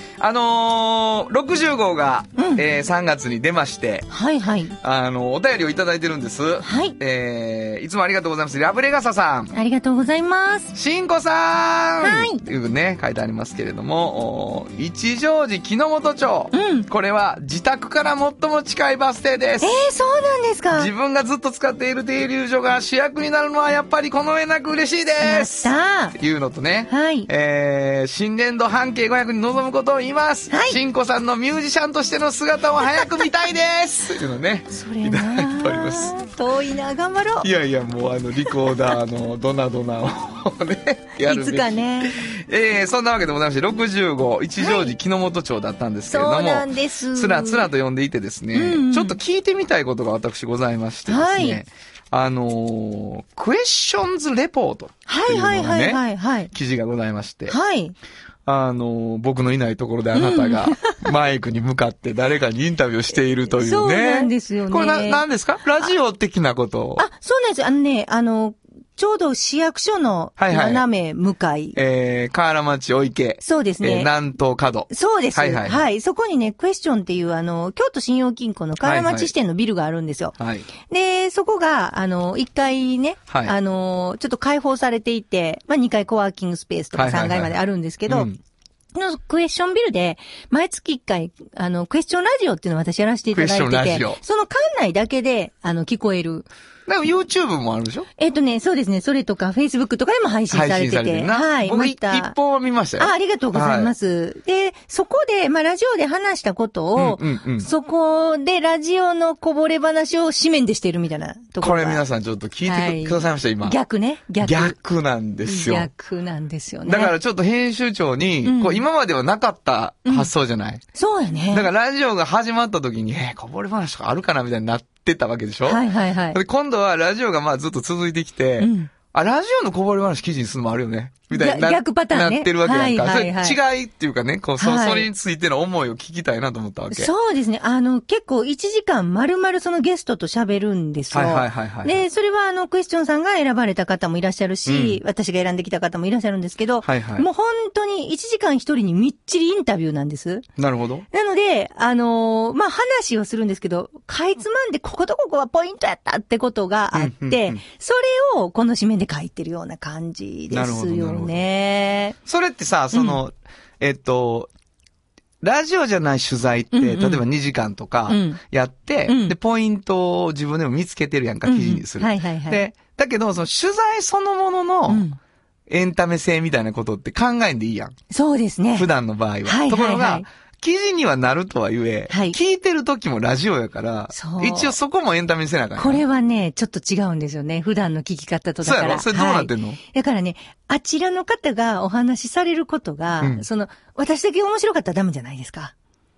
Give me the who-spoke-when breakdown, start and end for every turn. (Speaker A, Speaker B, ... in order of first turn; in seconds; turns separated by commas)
Speaker A: 0.2-4.1, Speaker B: 2.4-2.6, Speaker B: 4.1-4.8, Speaker A: 4.8-9.5, Speaker B: 6.6-7.0, Speaker B: 9.5-10.7, Speaker A: 10.7-19.7, Speaker B: 12.0-12.4, Speaker B: 16.5-16.9, Speaker B: 19.6-20.9, Speaker A: 20.7-36.1, Speaker B: 25.2-26.1, Speaker B: 26.9-27.3, Speaker B: 30.5-30.8, Speaker B: 34.7-37.5, Speaker A: 37.4-57.5, Speaker B: 41.2-42.2, Speaker B: 44.6-44.9, Speaker B: 46.1-47.7, Speaker B: 48.5-49.2, Speaker B: 51.1-51.6, Speaker B: 55.1-56.5, Speaker B: 57.5-58.0, Speaker A: 58.5-67.0, Speaker B: 60.1-61.0, Speaker B: 63.5-65.2, Speaker B: 67.0-71.8, Speaker A: 70.4-70.8, Speaker A: 71.7-75.8, Speaker B: 73.4-74.1, Speaker B: 74.9-88.3, Speaker A: 78.8-79.3, Speaker A: 80.4-80.7, Speaker A: 83.3-83.5, Speaker A: 86.9-87.5, Speaker A: 88.1-88.4, Speaker B: 88.9-96.5, Speaker A: 93.3-94.2, Speaker A: 96.9-98.1, Speaker B: 98.2-102.3, Speaker A: 100.5-103.9, Speaker B: 103.0-112.0, Speaker A: 107.0-107.7, Speaker A: 111.6-113.8, Speaker B: 112.6-114.8, Speaker A: 114.4-115.9, Speaker B: 115.4-117.1, Speaker A: 116.8-120.8, Speaker B: 118.4-118.8, Speaker B: 120.9-121.7, Speaker A: 121.5-137.1, Speaker B: 125.7-126.4, Speaker B: 128.6-128.9, Speaker B: 131.3-133.6, Speaker B: 134.6-135.1, Speaker B: 136.9-150.4, Speaker A: 141.1-142.0, Speaker A: 144.7-145.0, Speaker A: 146.8-147.3, Speaker A: 150.6-151.1, Speaker B: 151.1-162.2, Speaker A: 156.9-157.6, Speaker A: 160.5-161.4, Speaker A: 162.2-164.5, Speaker B: 162.9-163.2, Speaker A: 165.4-175.1, Speaker B: 166.7-167.2, Speaker B: 168.1-168.4, Speaker B: 169.1-169.3, Speaker B: 171.4-172.6, Speaker B: 174.9-175.2, Speaker A: 175.7-177.9, Speaker B: 178.1-178.9, Speaker A: 178.7-186.0, Speaker B: 179.4-180.2, Speaker B: 182.1-182.4, Speaker B: 184.1-184.7, Speaker B: 185.8-195.7, Speaker A: 188.6-189.8, Speaker A: 193.2-193.4